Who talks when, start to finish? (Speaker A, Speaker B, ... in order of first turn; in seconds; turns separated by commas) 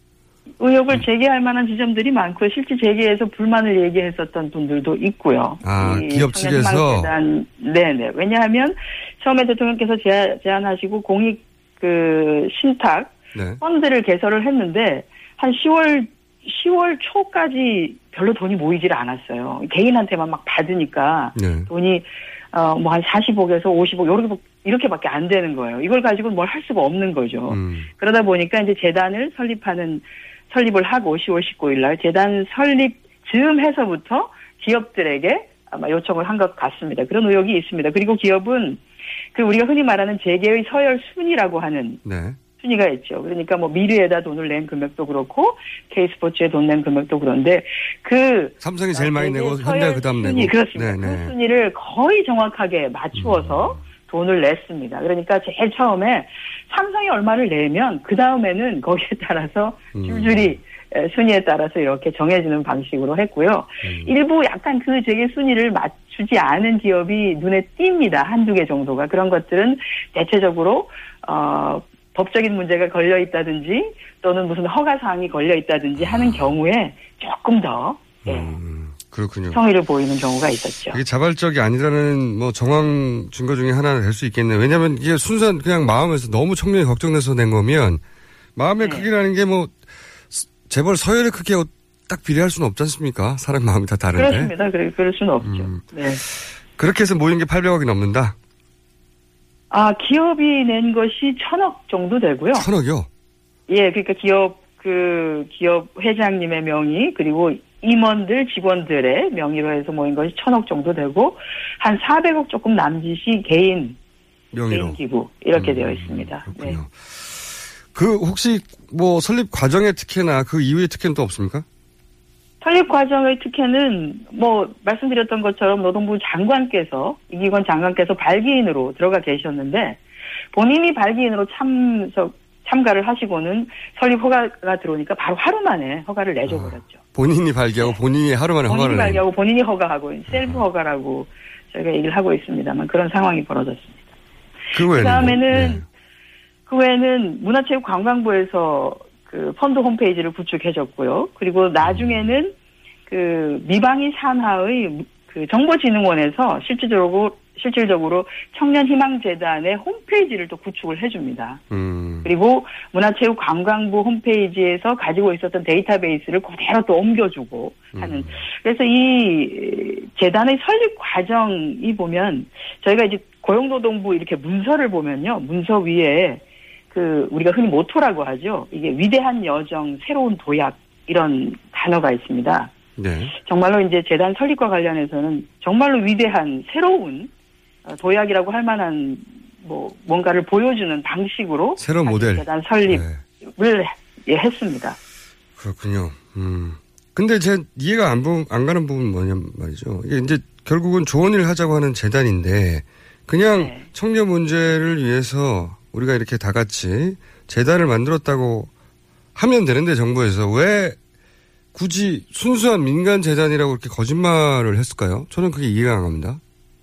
Speaker A: 0.6-38.8, Speaker B: 5.6-7.1, Speaker B: 13.3-13.6, Speaker B: 21.4-21.7, Speaker B: 27.5-27.9, Speaker A: 39.3-42.0, Speaker B: 42.0-42.4, Speaker A: 42.6-78.5, Speaker B: 48.6-51.3, Speaker B: 53.1-53.8, Speaker B: 59.9-60.5, Speaker B: 63.8-64.1, Speaker B: 76.0-76.5, Speaker B: 78.2-79.6, Speaker A: 79.5-81.0, Speaker B: 80.9-88.0, Speaker B: 88.6-89.7, Speaker A: 88.8-89.1, Speaker B: 90.3-94.5, Speaker A: 94.1-96.2, Speaker B: 95.4-98.3, Speaker A: 99.7-102.7, Speaker B: 102.5-103.1, Speaker A: 103.7-114.0, Speaker B: 114.5-115.0, Speaker A: 114.7-116.8, Speaker B: 115.5-121.7, Speaker A: 122.6-130.0, Speaker A: 130.5-137.0, Speaker B: 136.5-139.2, Speaker A: 138.7-144.0, Speaker B: 140.3-140.6, Speaker B: 144.7-145.8, Speaker A: 144.8-145.8, Speaker A: 146.7-152.6, Speaker B: 151.8-152.3, Speaker A: 153.1-161.6, Speaker B: 161.7-162.3, Speaker A: 162.2-182.7, Speaker B: 167.9-168.4, Speaker B: 183.0-183.3, Speaker A: 183.4-187.3, Speaker A: 187.8-195.0, Speaker B: 191.8-193.2, Speaker B: 195.6-208.7, Speaker A: 203.6-203.9, Speaker B: 209.3-211.0, Speaker B: 211.7-216.4